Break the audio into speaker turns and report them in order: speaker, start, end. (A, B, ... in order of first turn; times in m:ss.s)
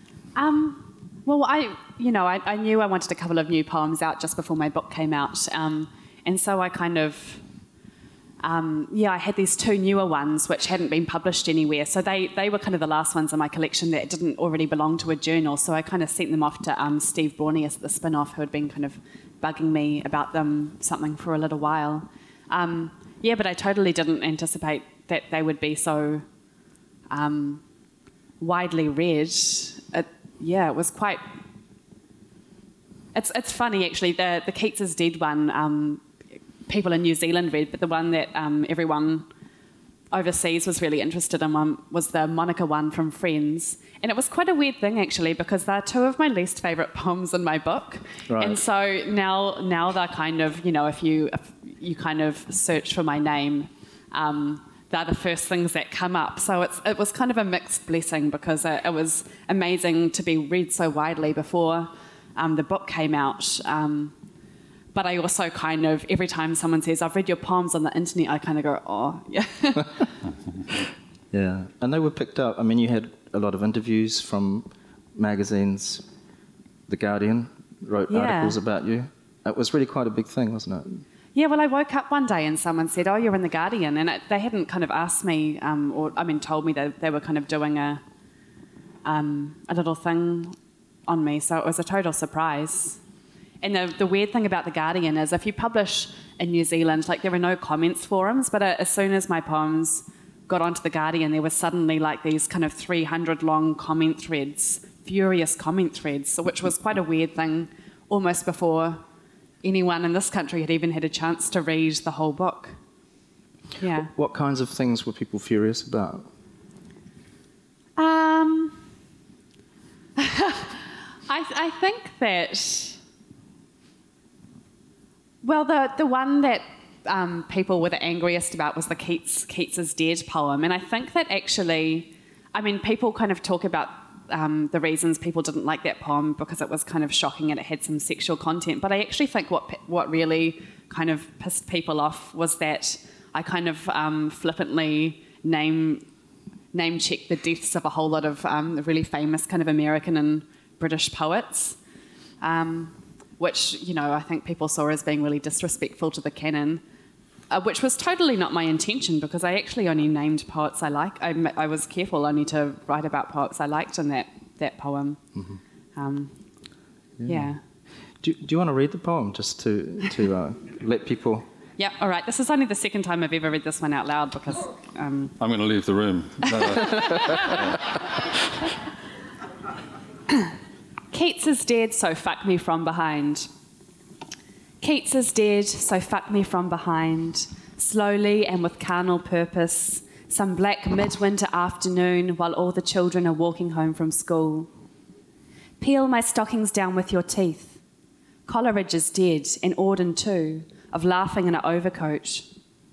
0:00.4-0:07.4 A
0:08.4-0:26.2 A
0:27.1-0:27.6 A
0:28.4-0:31.3 A
0:33.1-0:36.0 A
0:36.7-0:39.3 A
0:40.1-1:04.1 A
0:48.3-0:48.6 B
1:04.9-1:10.1 A
1:11.3-1:16.0 B
1:16.9-1:21.0 B
1:18.1-1:18.6 A
1:21.3-1:28.0 A
1:29.0-1:30.6 A
1:31.1-1:33.0 A
1:33.6-1:49.0 A
1:49.6-1:52.8 A
1:53.8-1:54.1 A
1:54.1-1:56.3 B
1:58.0-1:58.9 A
2:00.2-2:03.0 A
2:05.4-2:26.0 A
2:26.7-2:31.8 A
2:32.4-2:36.8 A
2:37.5-2:45.2 A
2:46.0-2:46.3 A
2:47.2-2:47.5 B
2:47.2-2:47.6 A
2:48.2-2:51.4 B
2:51.8-2:55.4 A
2:55.4-2:57.8 C
2:56.6-2:57.7 A
3:01.1-3:03.5 A
3:04.8-3:14.7 A
3:15.8-3:17.8 A
3:18.5-3:22.5 A